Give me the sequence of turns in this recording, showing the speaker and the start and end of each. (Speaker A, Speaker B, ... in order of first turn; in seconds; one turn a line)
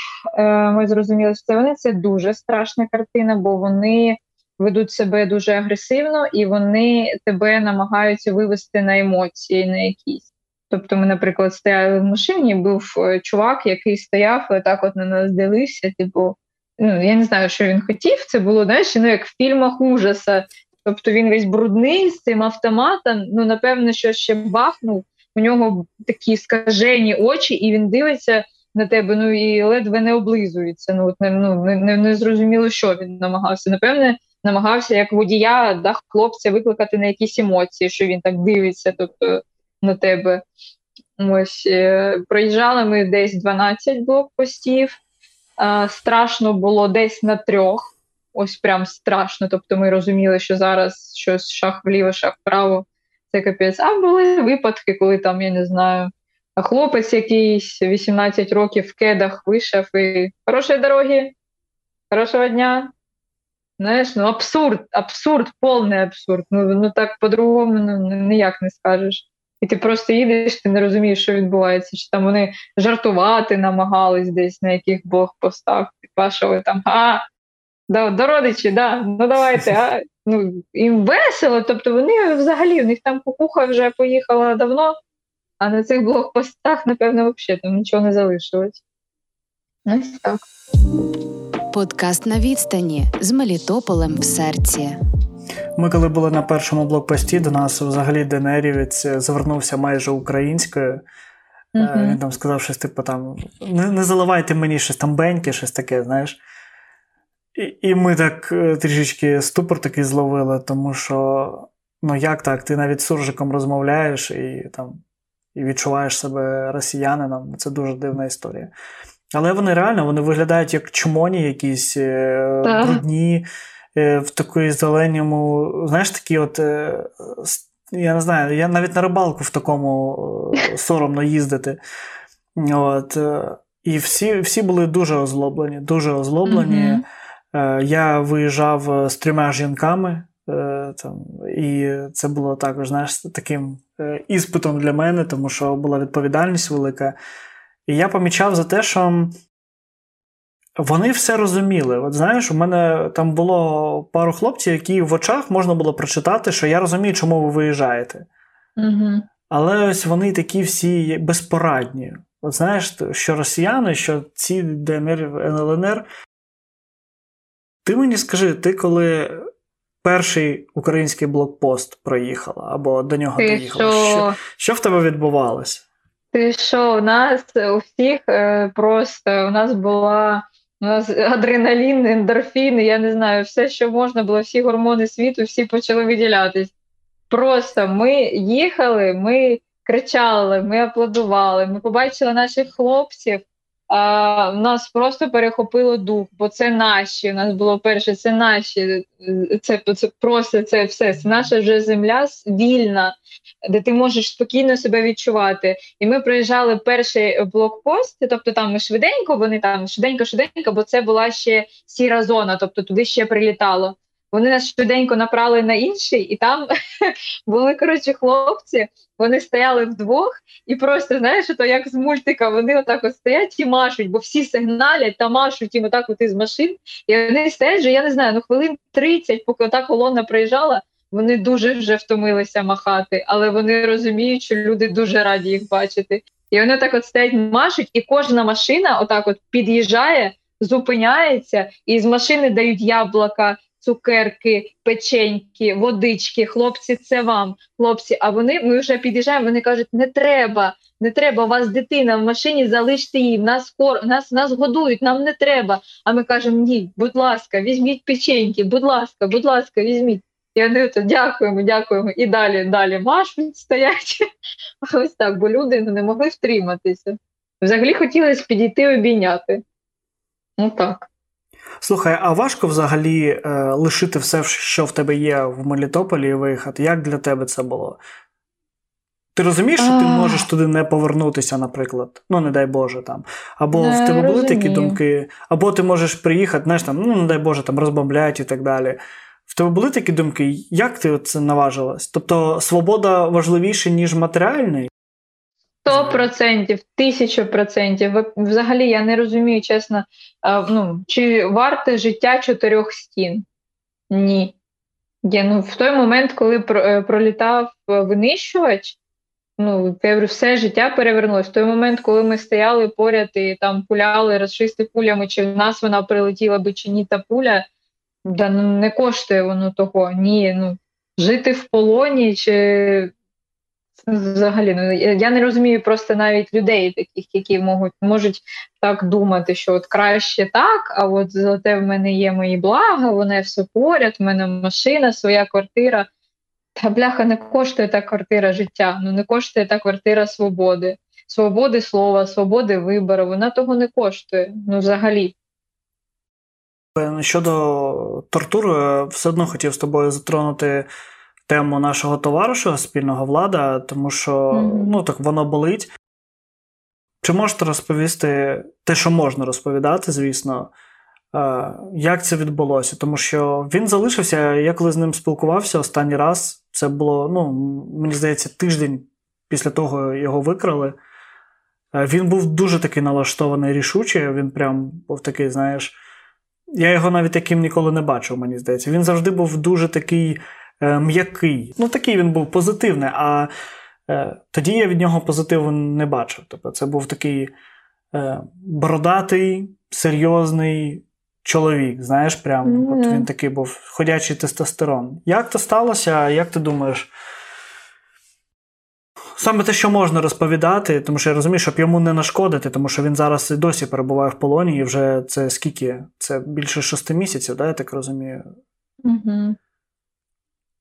Speaker A: 0.4-40.4
Speaker A: 41.2-45.0
Speaker A: 45.6-61.3
Speaker A: 62.1-62.9
Speaker A: 63.8-77.2
Speaker A: 77.9-85.0
Speaker A: 85.6-88.8
Speaker A: 89.9-90.4
Speaker B: 91.7-95.0
Speaker C: 95.8-101.0
Speaker A: 101.7-102.2
Speaker C: 101.8-106.4
Speaker C: 107.5-115.0
Speaker C: 115.5-118.7
Speaker C: 119.3-123.4
Speaker A: 122.6-123.0
Speaker C: 124.0-131.8
Speaker C: 132.6-137.0
Speaker A: 136.4-137.0
Speaker C: 137.5-147.1
Speaker C: 147.9-149.4
Speaker C: 150.8-158.3
Speaker A: 158.8-159.3
Speaker C: 159.5-166.1
Speaker C: 167.8-169.4
Speaker C: 170.0-175.8
Speaker A: 173.4-174.4
Speaker A: 176.3-186.7
Speaker A: 187.3-203.2
Speaker A: 203.7-264.2
Speaker A: 264.8-269.6
Speaker A: 270.6-271.1
Speaker C: 271.8-278.0
Speaker C: 279.3-294.9
Speaker A: 279.8-280.4
Speaker A: 283.7-285.0
Speaker A: 295.8-303.4
Speaker C: 295.9-296.3
Speaker A: 304.1-304.6
Speaker A: 305.2-309.0
Speaker A: 309.6-317.7
Speaker A: 318.2-323.1
Speaker A: 324.0-336.1
Speaker A: 336.8-345.3
Speaker C: 346.9-350.9
Speaker C: 351.5-355.9
Speaker A: 354.5-355.0
Speaker C: 357.2-360.7
Speaker C: 361.3-370.9
Speaker C: 371.9-375.9
Speaker C: 376.8-383.5
Speaker C: 384.1-387.5
Speaker C: 388.1-397.1
Speaker A: 392.6-393.3
Speaker C: 399.4-408.4
Speaker A: 409.1-409.6